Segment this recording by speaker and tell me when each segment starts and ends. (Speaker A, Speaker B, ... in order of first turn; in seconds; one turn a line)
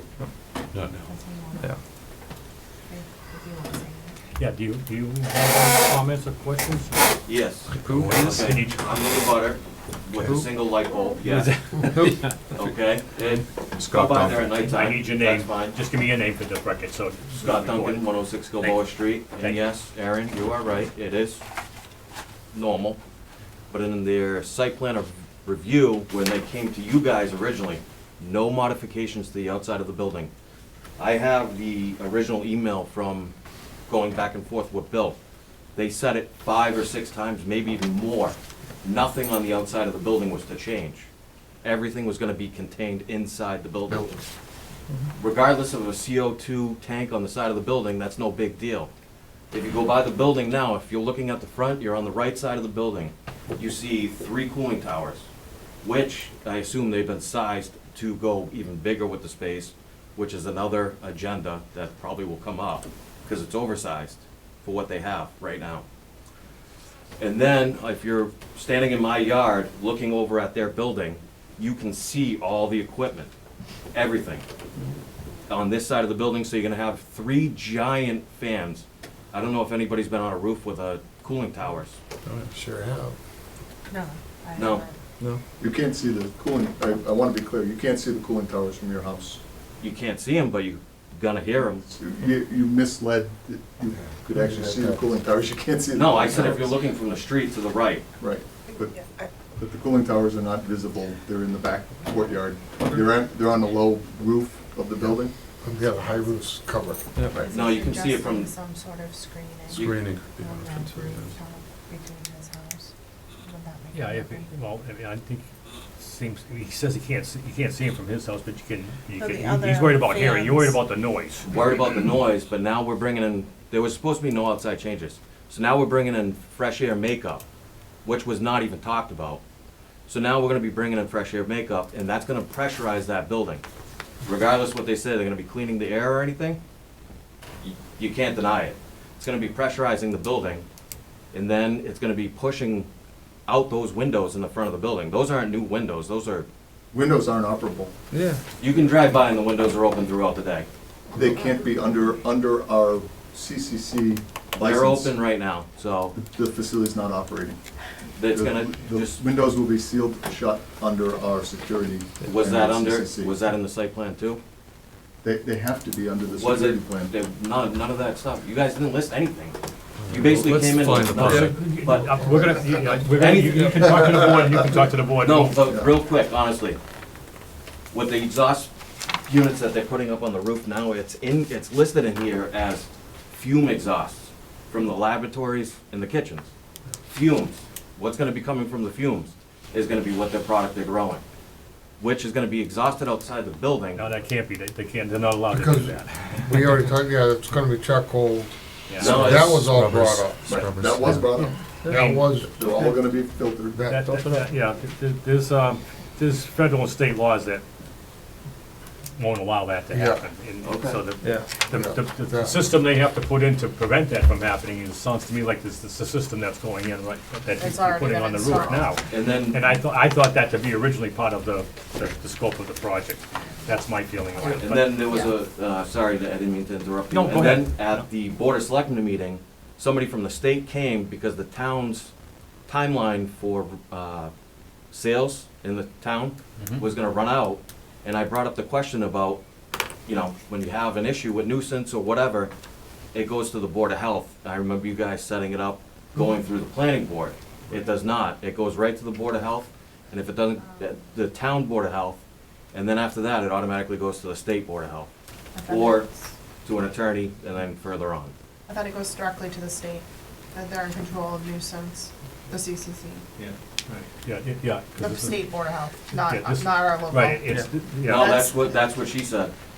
Speaker A: 0.7-1.1
Speaker B: 1.0-1.8
Speaker B: 2.9-4.2
Speaker C: 4.4-7.2
Speaker D: 7.2-15.8
Speaker E: 7.7-8.5
Speaker A: 7.8-8.6
Speaker C: 8.4-9.2
Speaker C: 11.4-12.3
Speaker C: 14.6-19.7
Speaker D: 17.4-21.4
Speaker D: 22.5-23.0
Speaker D: 23.7-30.3
Speaker D: 31.0-33.3
Speaker D: 33.9-35.2
Speaker D: 35.8-41.1
Speaker D: 41.6-44.2
Speaker D: 45.2-48.9
Speaker D: 49.5-55.3
Speaker D: 55.8-65.8
Speaker D: 67.2-73.3
Speaker D: 73.9-74.5
Speaker D: 75.5-82.0
Speaker F: 82.5-83.2
Speaker B: 83.9-85.0
Speaker D: 84.6-84.8
Speaker G: 85.6-89.4
Speaker D: 89.8-91.9
Speaker G: 91.9-96.7
Speaker F: 94.2-95.0
Speaker D: 95.9-98.0
Speaker G: 98.2-105.6
Speaker B: 98.7-99.3
Speaker F: 105.6-107.1
Speaker B: 107.3-114.5
Speaker D: 107.5-108.5
Speaker A: 109.7-111.3
Speaker D: 109.7-110.0
Speaker C: 113.9-121.5
Speaker B: 119.2-120.8
Speaker D: 121.5-127.4
Speaker D: 128.1-129.4
Speaker D: 130.1-133.6
Speaker D: 134.2-136.6
Speaker D: 137.6-140.7
Speaker D: 141.3-142.9
Speaker D: 143.5-146.5
Speaker G: 146.9-147.9
Speaker E: 148.1-148.4
Speaker D: 148.6-150.7
Speaker G: 151.1-155.3
Speaker D: 154.6-156.2
Speaker G: 156.2-157.6
Speaker D: 158.2-159.2
Speaker G: 158.3-163.4
Speaker D: 162.2-164.4
Speaker G: 165.2-167.1
Speaker D: 166.4-169.6
Speaker D: 170.1-174.3
Speaker A: 170.1-171.5
Speaker E: 170.2-171.6
Speaker C: 171.1-175.6
Speaker D: 175.2-176.8
Speaker G: 175.6-175.9
Speaker D: 177.9-178.7
Speaker D: 179.2-186.5
Speaker D: 187.1-191.2
Speaker D: 192.0-194.1
Speaker C: 194.0-196.7
Speaker F: 195.5-201.3
Speaker C: 198.9-199.2
Speaker D: 199.0-199.7
Speaker A: 199.5-201.3
Speaker G: 200.4-201.7
Speaker E: 201.8-203.0
Speaker F: 201.9-202.6
Speaker G: 202.3-203.8
Speaker F: 203.7-204.1
Speaker C: 203.9-207.6
Speaker E: 203.9-204.5
Speaker C: 209.2-225.0
Speaker F: 209.9-210.3
Speaker D: 210.6-211.0
Speaker E: 211.2-211.5
Speaker F: 211.7-212.6
Speaker B: 217.6-219.0
Speaker D: 219.1-219.6
Speaker D: 224.6-232.1
Speaker B: 225.0-225.3
Speaker C: 227.1-228.1
Speaker D: 232.7-234.3
Speaker D: 234.9-239.4
Speaker D: 240.1-242.5
Speaker D: 243.1-252.2
Speaker D: 252.7-255.1
Speaker B: 255.5-256.3
Speaker D: 255.7-256.1
Speaker D: 256.6-258.3
Speaker B: 258.7-263.3
Speaker C: 263.4-265.6
Speaker B: 265.0-267.4
Speaker C: 266.1-268.3
Speaker D: 268.0-269.5
Speaker B: 268.2-268.8